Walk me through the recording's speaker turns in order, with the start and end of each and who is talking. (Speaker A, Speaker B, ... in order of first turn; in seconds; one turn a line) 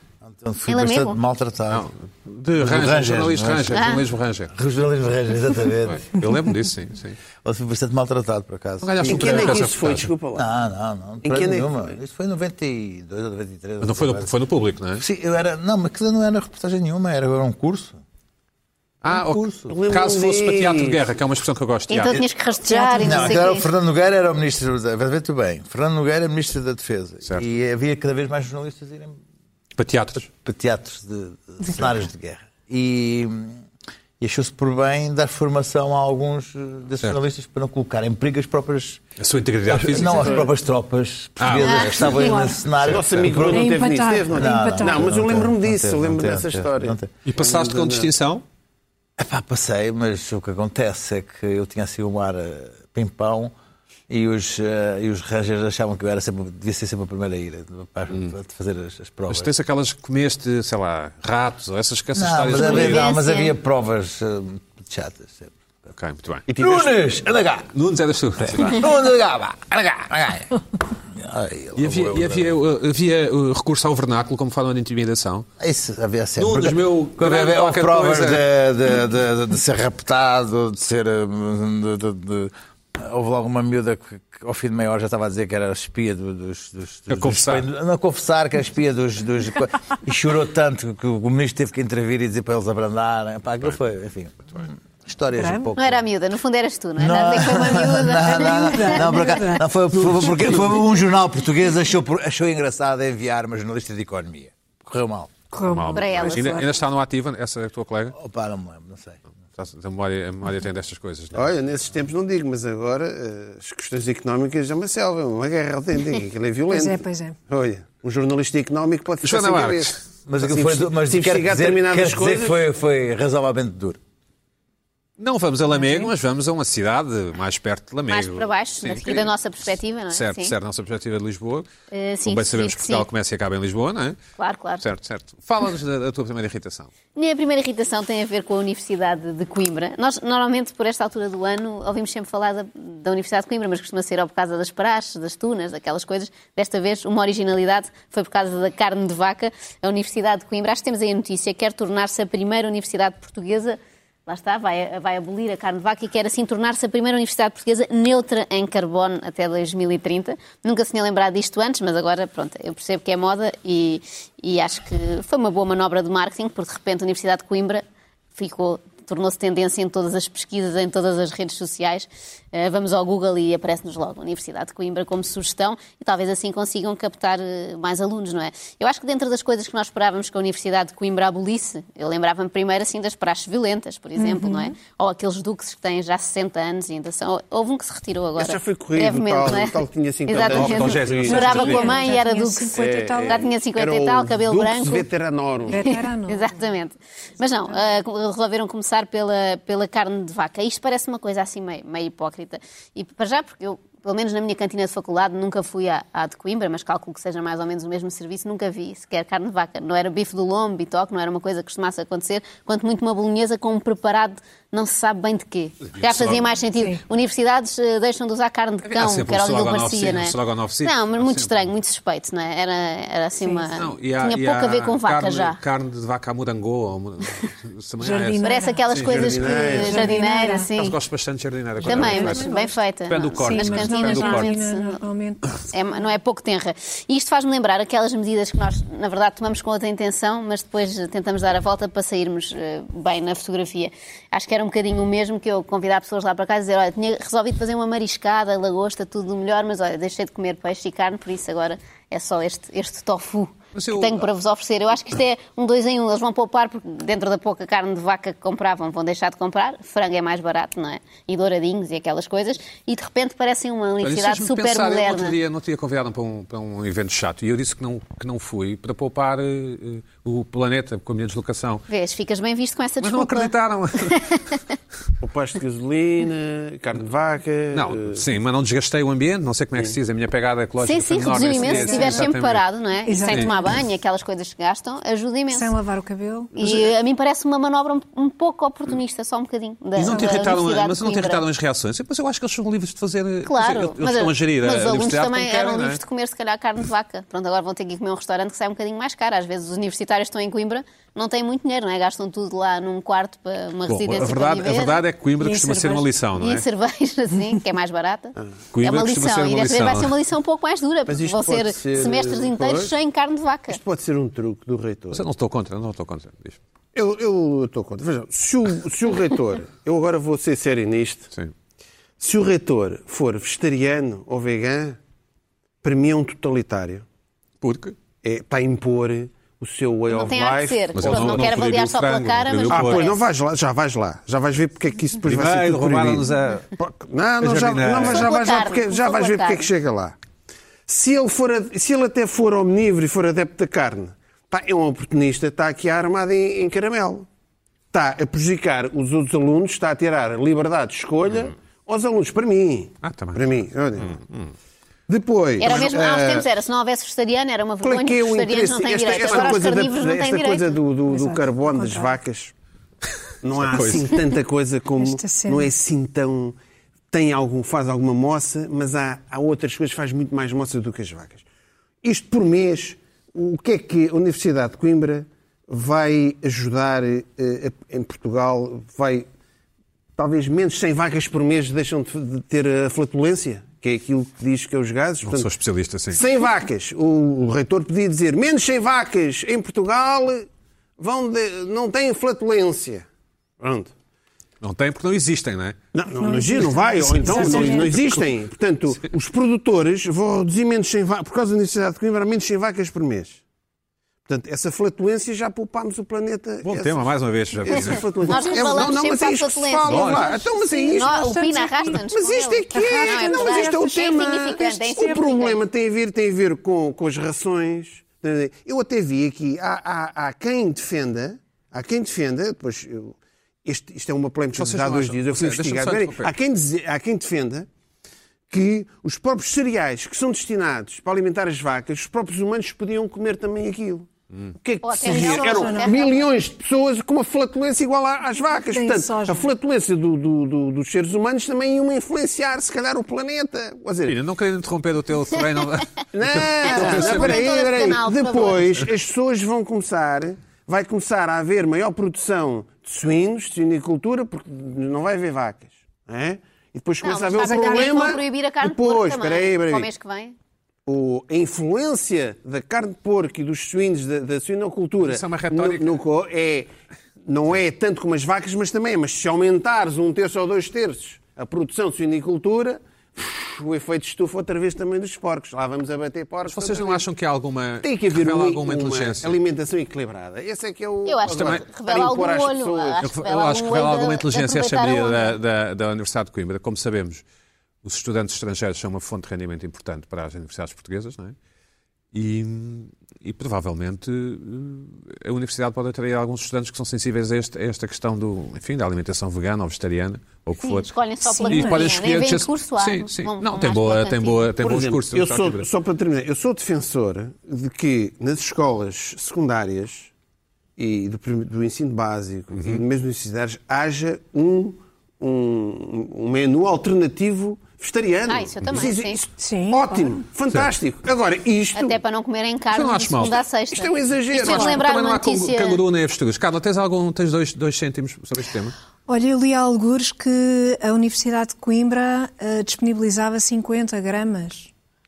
Speaker A: 0.2-1.9
Speaker B: 0.7-1.2
Speaker C: 1.7-4.5
Speaker A: 2.6-6.3
Speaker B: 3.7-4.0
Speaker C: 5.9-7.2
Speaker A: 7.4-9.6
Speaker C: 8.8-10.1
Speaker D: 9.1-10.5
Speaker B: 9.2-9.5
Speaker A: 10.3-14.3
Speaker D: 11.2-11.8
Speaker C: 13.8-15.1
Speaker A: 15.0-18.0
Speaker C: 19.0-22.3
Speaker A: 19.1-19.8
Speaker D: 19.7-21.0
Speaker B: 21.9-23.7
Speaker E: 22.7-23.5
Speaker A: 23.0-29.2
Speaker C: 29.8-30.3
Speaker A: 30.3-33.6
Speaker A: 34.2-39.0
Speaker C: 39.2-40.5
Speaker A: 39.7-43.7
Speaker C: 41.4-43.5
Speaker B: 41.6-42.5
Speaker E: 42.1-42.6
Speaker D: 42.8-48.1
Speaker E: 43.5-45.1
Speaker A: 44.3-47.1
Speaker C: 47.2-48.4
Speaker A: 49.2-53.5
Speaker A: 54.1-59.5
Speaker C: 59.3-63.1
Speaker A: 62.1-65.5
Speaker B: 62.6-63.5
Speaker C: 65.9-66.5
Speaker D: 66.5-66.9
Speaker A: 66.6-67.7
Speaker C: 67.7-68.9
Speaker A: 68.4-72.5
Speaker C: 71.8-75.5
Speaker A: 75.6-96.0
Speaker C: 76.4-78.5
Speaker C: 87.1-87.7
Speaker E: 95.4-95.7
Speaker B: 95.8-99.4
Speaker A: 97.0-105.3
Speaker E: 98.7-99.6
Speaker E: 105.5-106.7
Speaker C: 105.7-108.2
Speaker B: 105.9-106.7
Speaker A: 108.1-109.2
Speaker C: 109.6-111.5
Speaker D: 111.3-122.6
Speaker E: 116.7-117.4
Speaker C: 119.2-120.0
Speaker A: 120.3-124.0
Speaker C: 125.2-129.3
Speaker E: 125.7-126.1
Speaker B: 128.1-130.5
Speaker C: 130.1-131.7
Speaker B: 131.9-133.1
Speaker C: 132.2-134.2
Speaker B: 134.4-134.8
Speaker C: 134.8-136.9
Speaker B: 137.2-167.8
Speaker B: 168.3-192.8
Speaker E: 184.2-184.7
Speaker D: 188.4-191.9
Speaker C: 190.3-192.0
Speaker E: 191.3-193.4
Speaker D: 192.7-196.0
Speaker B: 193.3-195.1
Speaker E: 195.7-196.7
Speaker B: 195.7-225.6
Speaker C: 216.0-216.5
Speaker E: 216.8-217.0
Speaker C: 218.8-221.7
Speaker E: 223.4-223.7
Speaker C: 223.8-230.0
Speaker E: 228.0-230.7
Speaker B: 228.4-231.0
Speaker D: 229.1-230.0
Speaker C: 230.8-232.5
Speaker E: 231.8-232.8
Speaker B: 231.8-235.0
Speaker C: 233.1-234.6
Speaker E: 233.4-236.0
Speaker B: 235.7-265.4
Speaker C: 253.8-254.3
Speaker C: 264.0-271.9
Speaker B: 271.9-274.6
Speaker C: 273.0-274.5
Speaker D: 275.2-278.2
Speaker C: 277.7-282.6
Speaker B: 280.8-285.7
Speaker E: 281.6-282.3
Speaker E: 283.1-283.8
Speaker C: 283.2-283.5
Speaker E: 285.5-286.5
Speaker D: 286.6-286.9
Speaker B: 286.6-291.4
Speaker C: 290.0-296.0
Speaker B: 293.4-305.0
Speaker C: 303.9-306.6
Speaker E: 305.4-306.1
Speaker B: 306.4-313.8
Speaker C: 308.7-310.1
Speaker D: 311.1-313.0
Speaker D: 313.7-315.2
Speaker C: 315.1-316.6
Speaker D: 316.9-321.3
Speaker D: 322.2-325.0
Speaker D: 325.8-327.1
Speaker C: 327.6-328.0
Speaker D: 328.2-331.6
Speaker B: 330.1-333.2
Speaker C: 330.9-333.1
Speaker D: 332.7-340.1
Speaker C: 335.2-336.7
Speaker C: 337.4-338.3
Speaker B: 338.0-339.7
Speaker D: 340.9-347.3
Speaker D: 347.9-354.2
Speaker C: 353.0-354.5
Speaker D: 355.1-356.5
Speaker B: 355.6-360.8
Speaker D: 357.8-362.5
Speaker C: 359.1-359.6
Speaker E: 361.1-362.1
Speaker D: 363.4-366.6
Speaker C: 363.6-364.1
Speaker E: 365.0-365.7
Speaker D: 367.1-371.4
Speaker D: 372.0-379.3
Speaker D: 380.2-385.5
Speaker C: 385.2-386.2
Speaker D: 386.1-393.1
Speaker D: 393.6-393.9
Speaker C: 394.6-395.8
Speaker D: 395.9-403.4
Speaker E: 396.2-397.9
Speaker C: 397.1-398.2
Speaker D: 404.2-407.1
Speaker C: 406.6-408.4
Speaker D: 407.6-411.4
Speaker B: 407.7-415.6
Speaker E: 408.3-408.9
Speaker C: 409.8-410.5
Speaker E: 410.4-412.0
Speaker D: 412.0-427.7
Speaker E: 412.7-413.9
Speaker C: 424.6-426.3
Speaker D: 428.5-444.2
Speaker B: 434.8-436.3
Speaker E: 435.0-436.0
Speaker E: 438.7-439.5
Speaker C: 444.1-447.4
Speaker D: 446.1-459.9
Speaker B: 446.6-448.8
Speaker B: 457.0-460.4
Speaker E: 457.3-458.2
Speaker D: 460.9-466.7
Speaker C: 465.0-466.0
Speaker D: 467.2-477.1
Speaker C: 476.5-479.4
Speaker D: 477.8-483.1
Speaker B: 481.1-485.4
Speaker C: 481.3-481.6
Speaker C: 483.0-487.2
Speaker C: 487.8-491.4
Speaker C: 492.1-505.7
Speaker B: 500.6-504.5
Speaker E: 501.3-501.9
Speaker D: 504.6-510.1
Speaker D: 510.8-522.0
Speaker C: 512.5-512.8
Speaker B: 518.3-519.2
Speaker E: 519.4-520.2
Speaker B: 521.8-525.8
Speaker C: 522.7-523.4
Speaker D: 523.7-524.8
Speaker C: 524.4-528.8
Speaker E: 524.4-524.7
Speaker E: 529.1-534.7